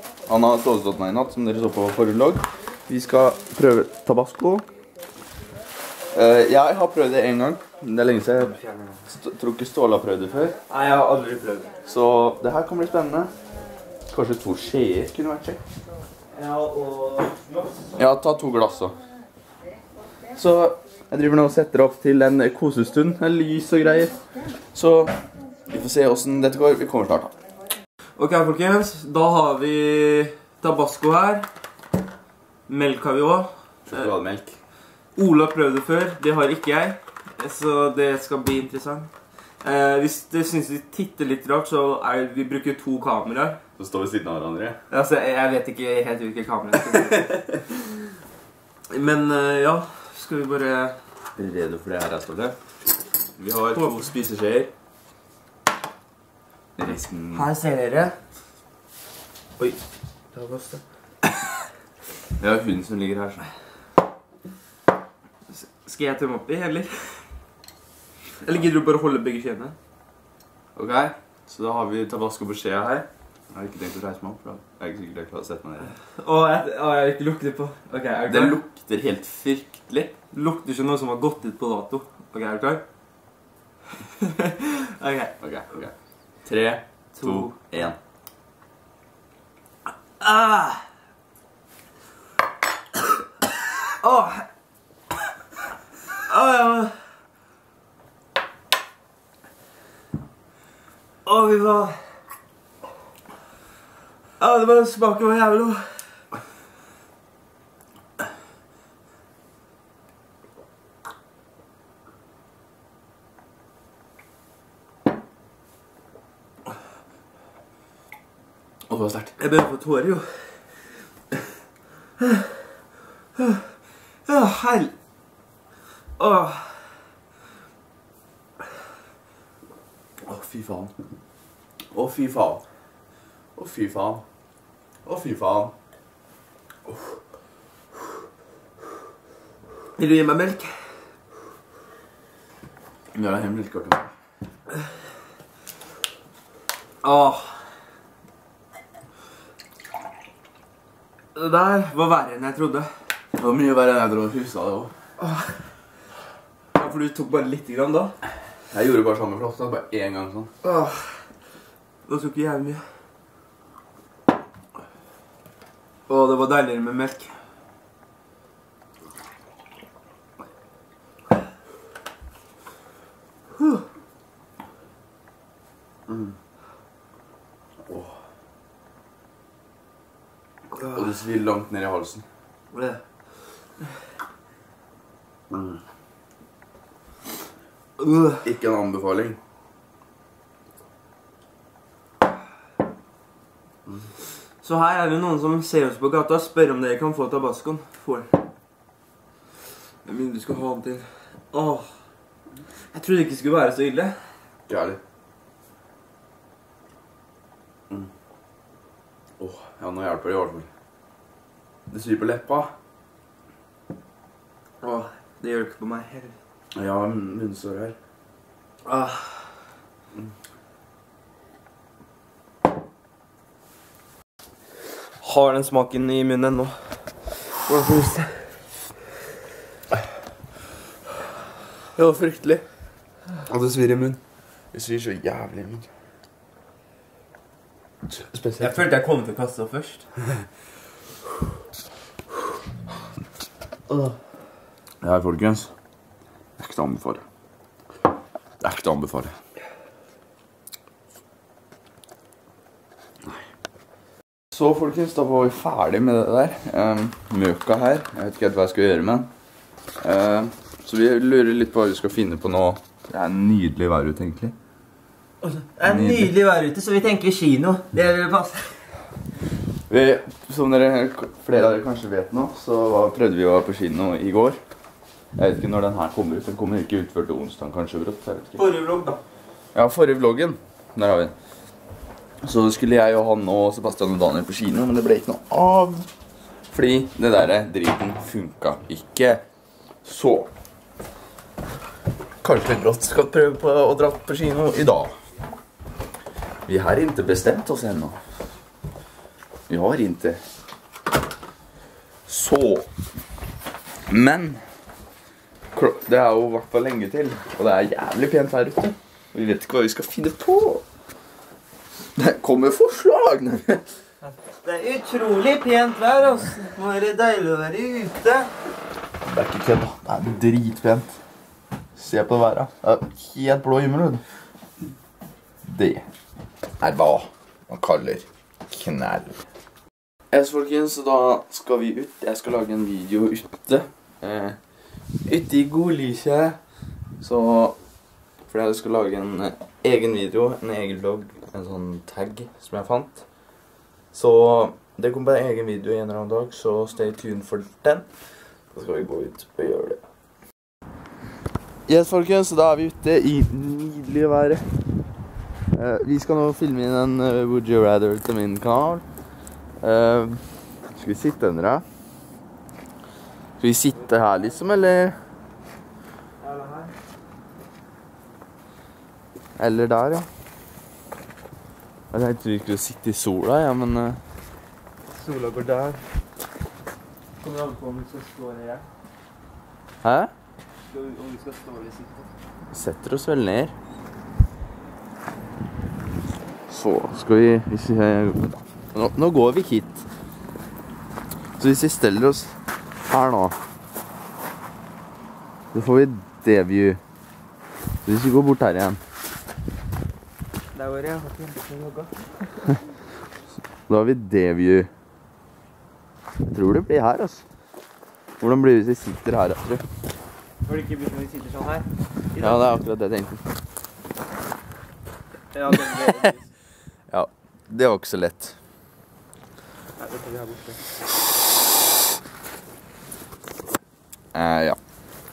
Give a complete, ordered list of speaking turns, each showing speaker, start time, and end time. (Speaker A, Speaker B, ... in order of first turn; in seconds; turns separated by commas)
Speaker A: 0.3-4.7, Speaker A: 6.1-8.5, Speaker B: 8.4-9.0, Speaker A: 9.1-10.6, Speaker B: 10.7-11.7, Speaker A: 11.8-13.3, Speaker A: 14.1-15.6, Speaker B: 16.3-17.9, Speaker A: 17.9-18.9, Speaker A: 20.4-24.1, Speaker A: 24.7-25.1, Speaker A: 25.7-27.3, Speaker B: 28.2-31.5, Speaker B: 32.7-34.1, Speaker A: 33.9-34.6, Speaker B: 35.1-39.1, Speaker B: 39.6-43.6, Speaker A: 43.8-44.8, Speaker B: 44.9-47.9, Speaker B: 48.9-51.0, Speaker A: 51.4-52.5, Speaker A: 53.4-54.7, Speaker B: 53.7-54.0, Speaker A: 56.8-57.5, Speaker B: 57.3-58.2, Speaker B: 60.3-60.8, Speaker A: 62.4-63.4, Speaker B: 65.5-67.3, Speaker B: 68.4-69.8, Speaker A: 70.8-75.9, Speaker B: 75.9-78.6, Speaker A: 78.3-80.1, Speaker B: 80.3-82.8, Speaker B: 84.2-85.3, Speaker A: 85.4-88.0, Speaker B: 87.1-87.9, Speaker B: 90.2-90.8, Speaker B: 94.0-94.5, Speaker B: 96.2-97.0, Speaker B: 101.2-102.0, Speaker B: 104.4-106.3, Speaker A: 118.9-119.3, Speaker B: 119.4-120.6, Speaker B: 122.2-122.8, Speaker B: 123.3-123.6, Speaker B: 124.2-124.9, Speaker B: 126.2-127.1, Speaker A: 130.2-130.9, Speaker A: 131.9-132.6, Speaker A: 133.6-134.2, Speaker A: 135.0-135.7, Speaker B: 139.9-140.8, Speaker A: 143.1-144.1, Speaker B: 147.0-147.6, Speaker B: 151.3-152.9, Speaker A: 153.3-154.9, Speaker B: 155.2-155.6, Speaker B: 156.7-158.2, Speaker A: 158.7-160.5, Speaker B: 160.6-161.3, Speaker B: 162.1-162.8, Speaker B: 166.1-167.3, Speaker A: 177.8-178.1, Speaker B: 180.7-181.1, Speaker A: 180.9-182.2, Speaker B: 182.7-183.0, Speaker A: 185.5-185.8, Speaker B: 188.0-188.4, Speaker A: 188.4-189.4, Speaker B: 194.6-198.4, Speaker B: 200.0-202.0, Speaker B: 202.9-204.3, Speaker A: 204.7-205.0, Speaker A: 209.4-210.7, Speaker A: 211.9-212.7, Speaker B: 214.8-216.3, Speaker A: 216.7-217.9, Speaker B: 218.8-219.5, Speaker B: 225.2-228.5, Speaker A: 231.9-232.7, Speaker A: 233.4-234.2, Speaker A: 234.7-235.9, Speaker A: 238.1-238.9, Speaker B: 238.6-240.1, Speaker A: 245.0-245.7, Speaker A: 246.6-247.2, Speaker A: 248.6-249.3, Speaker A: 254.5-259.3, Speaker A: 260.0-264.5, Speaker B: 265.4-269.1, Speaker A: 265.8-266.3, Speaker A: 269.9-274.6, Speaker A: 275.4-278.7, Speaker B: 278.5-279.2, Speaker A: 279.7-281.3, Speaker A: 282.4-286.1, Speaker A: 286.7-289.4, Speaker A: 290.0-290.5, Speaker A: 292.4-295.1, Speaker A: 296.6-298.2, Speaker A: 299.7-300.4, Speaker A: 302.3-302.9, Speaker A: 304.1-304.6, Speaker A: 305.7-310.8, Speaker A: 312.1-313.8, Speaker B: 314.2-318.5, Speaker A: 319.2-321.1, Speaker A: 321.9-324.2, Speaker A: 325.6-326.1, Speaker A: 326.8-329.4, Speaker A: 330.3-334.6, Speaker A: 335.2-336.6, Speaker A: 337.2-337.8, Speaker A: 338.5-343.3, Speaker A: 344.1-348.1, Speaker A: 348.7-350.0, Speaker A: 351.9-354.7, Speaker A: 355.7-359.0, Speaker A: 359.8-361.8, Speaker A: 363.6-365.2, Speaker B: 363.9-364.6, Speaker B: 366.4-366.9, Speaker A: 369.6-370.3, Speaker A: 372.1-374.2, Speaker B: 375.1-376.0, Speaker B: 377.4-378.8, Speaker A: 380.0-380.3, Speaker B: 380.9-382.3, Speaker A: 382.7-383.7, Speaker A: 386.7-390.1, Speaker A: 391.6-392.5, Speaker A: 393.1-393.6, Speaker A: 395.7-397.0, Speaker A: 398.0-399.0, Speaker B: 400.7-402.6, Speaker A: 403.9-404.9, Speaker A: 406.5-407.4, Speaker A: 408.4-409.8, Speaker B: 410.6-412.8, Speaker A: 412.4-413.4, Speaker B: 415.5-416.5, Speaker A: 415.7-416.3, Speaker A: 417.1-418.5, Speaker B: 420.0-420.8, Speaker A: 424.3-424.8